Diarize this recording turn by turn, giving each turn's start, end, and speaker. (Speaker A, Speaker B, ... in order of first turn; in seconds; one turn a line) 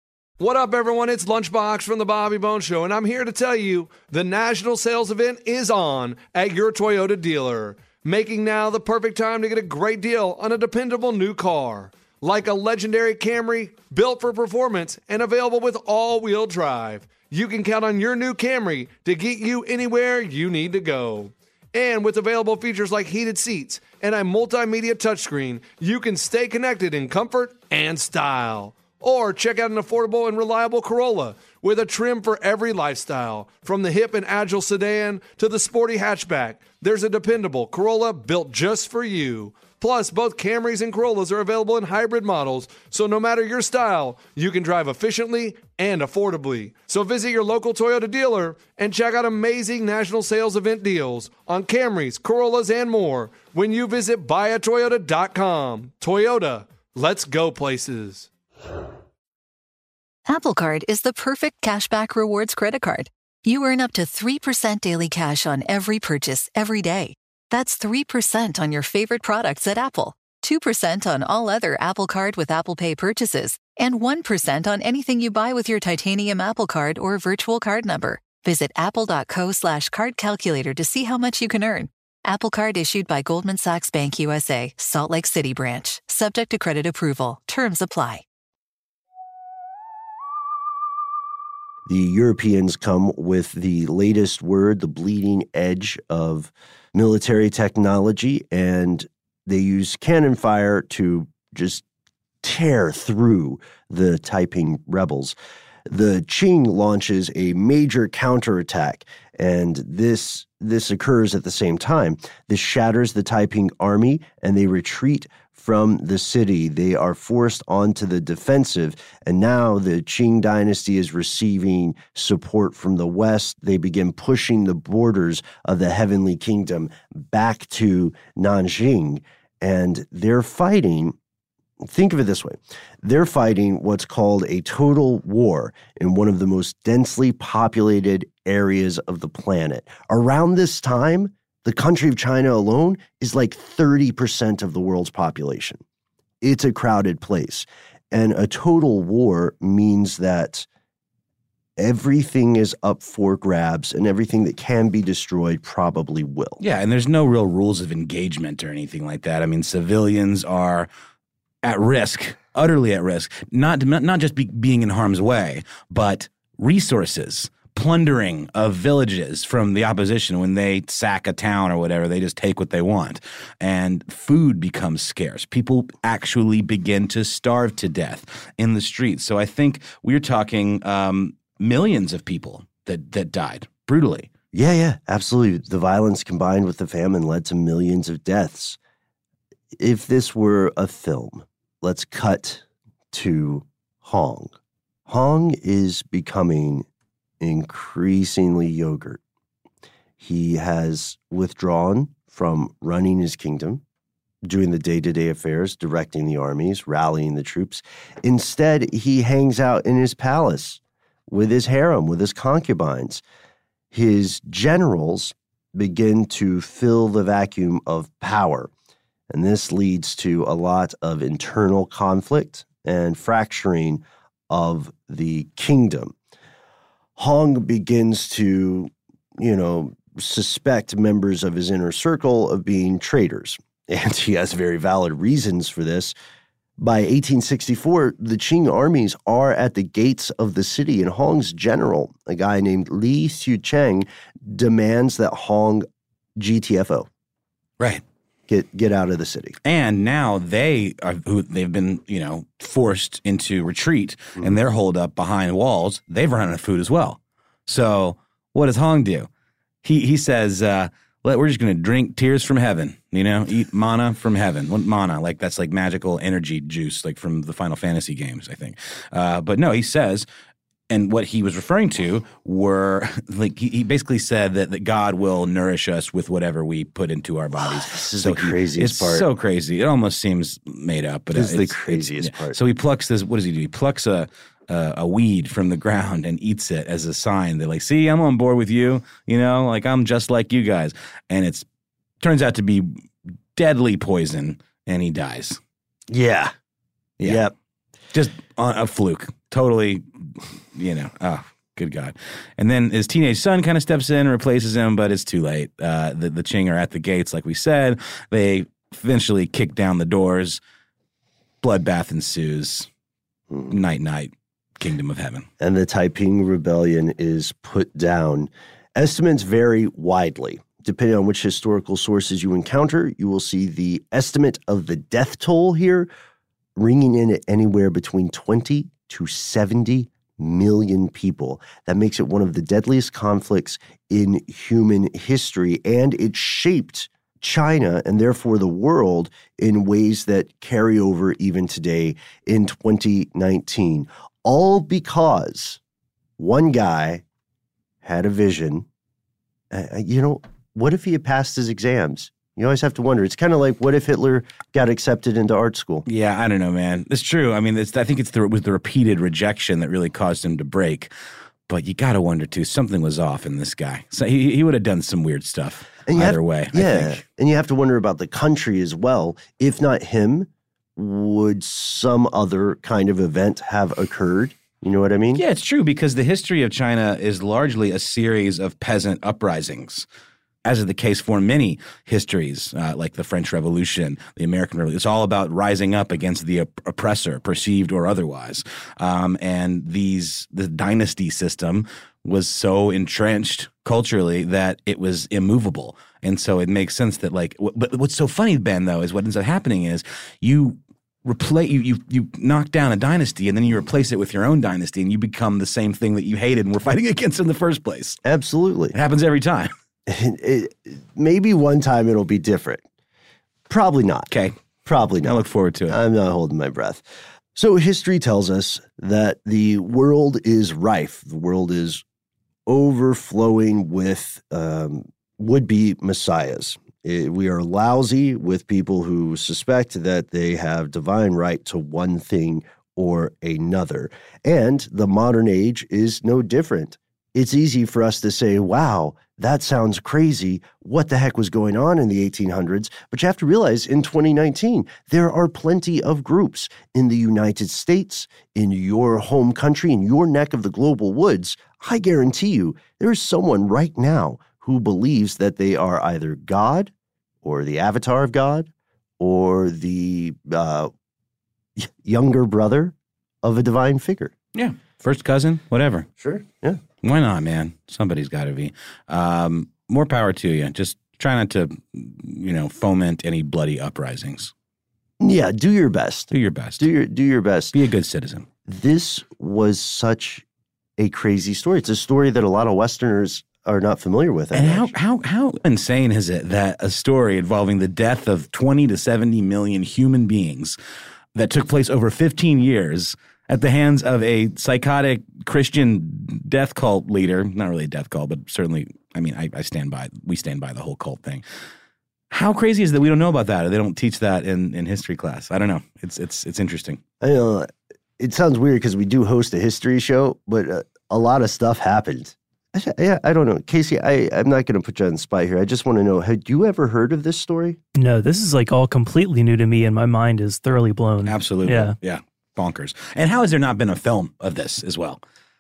Speaker A: 0.4-58.3
Speaker B: 60.3-88.2
Speaker C: 91.9-101.8
Speaker C: 102.4-105.3
Speaker C: 105.9-131.2
Speaker C: 131.8-145.8
Speaker C: 146.4-150.7
Speaker C: 151.8-156.6
Speaker D: 156.6-160.9
Speaker D: 161.6-184.3
Speaker C: 184.5-188.8
Speaker C: 189.8-194.6
Speaker C: 195.1-196.9
Speaker C: 197.4-199.2
Speaker C: 200.2-203.8
Speaker C: 204.4-213.2
Speaker C: 213.9-218.7
Speaker C: 219.3-226.1
Speaker C: 227.2-236.1
Speaker C: 236.8-245.9
Speaker C: 246.4-247.1
Speaker C: 248.5-249.6
Speaker D: 249.6-259.3
Speaker D: 259.8-270.3
Speaker D: 270.9-291.7
Speaker C: 277.6-279.3
Speaker C: 281.3-282.6
Speaker D: 292.2-295.6
Speaker C: 296.1-296.5
Speaker D: 297.2-297.4
Speaker C: 297.2-297.5
Speaker D: 298.1-310.6
Speaker D: 311.6-312.9
Speaker C: 313.5-313.8
Speaker D: 313.7-315.5
Speaker C: 315.6-326.1
Speaker C: 326.8-345.8
Speaker C: 346.4-347.2
Speaker C: 348.0-348.9
Speaker C: 349.7-356.1
Speaker D: 356.1-361.1
Speaker D: 361.7-367.2
Speaker C: 366.1-375.4
Speaker D: 375.4-380.1
Speaker D: 380.6-408.2
Speaker C: 408.2-409.0
Speaker D: 408.9-409.7
Speaker C: 410.1-412.8
Speaker C: 413.7-414.3
Speaker D: 414.3-414.6
Speaker C: 414.9-422.0
Speaker D: 415.2-416.0
Speaker C: 422.7-456.9
Speaker C: 457.4-460.9
Speaker C: 461.8-464.3
Speaker D: 464.6-466.1
Speaker C: 466.2-466.8
Speaker D: 467.0-474.5
Speaker C: 475.2-477.8
Speaker D: 476.3-476.9
Speaker D: 477.7-478.5
Speaker C: 478.7-480.4
Speaker C: 481.0-484.9
Speaker D: 484.5-490.8
Speaker D: 491.4-501.4
Speaker D: 502.3-507.0
Speaker C: 507.2-517.8
Speaker E: 518.0-522.0
Speaker D: 521.2-525.2